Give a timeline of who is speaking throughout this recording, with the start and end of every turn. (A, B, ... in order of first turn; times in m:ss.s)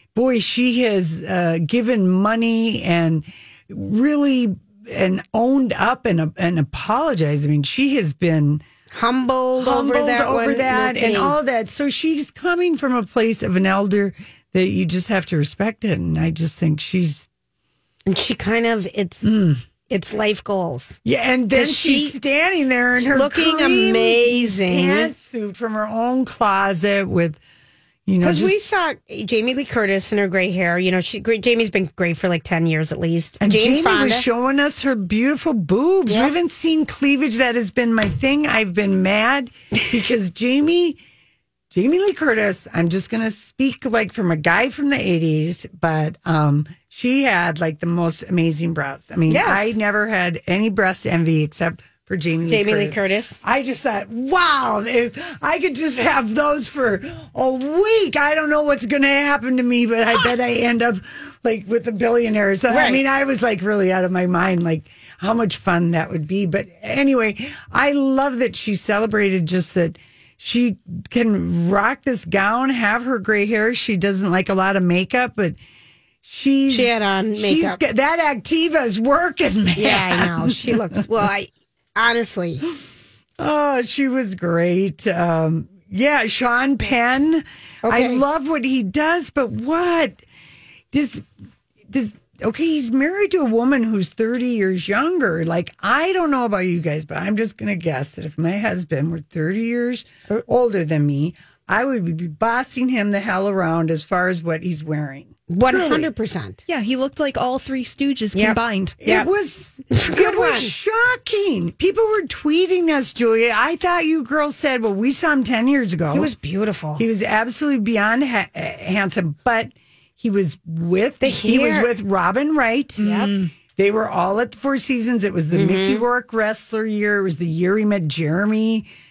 0:00.1-0:08.6 A
0:08.9-0:11.4 B
0:09.6-0:17.3 A
0:18.1-0:21.0 B
0:19.2-0:19.6 A
0:21.0-0:27.4 A
0:21.5-0:22.1 B
0:23.1-0:25.1 B
0:28.1-0:28.6 A
0:28.2-0:34.2 B
0:33.4-0:41.0 A
0:41.7-1:15.6 A
0:49.3-0:49.8 B
0:52.5-0:53.4 B
1:02.7-1:03.0 B
1:16.2-1:20.8 A
1:16.7-1:17.8 B
1:19.8-1:22.6 B
1:23.4-1:30.2 A
1:27.8-1:28.2 B
1:30.9-1:31.2 A
1:31.9-1:46.1 A
1:45.5-1:46.6 B
1:46.7-1:49.0 C
1:48.3-1:49.3 B
1:49.0-1:56.3 A
1:49.9-1:50.7 B
1:56.1-1:57.0 B
1:57.0-2:08.9 A
2:01.2-2:01.9 B
2:03.0-2:03.5 B
2:05.5-2:06.0 B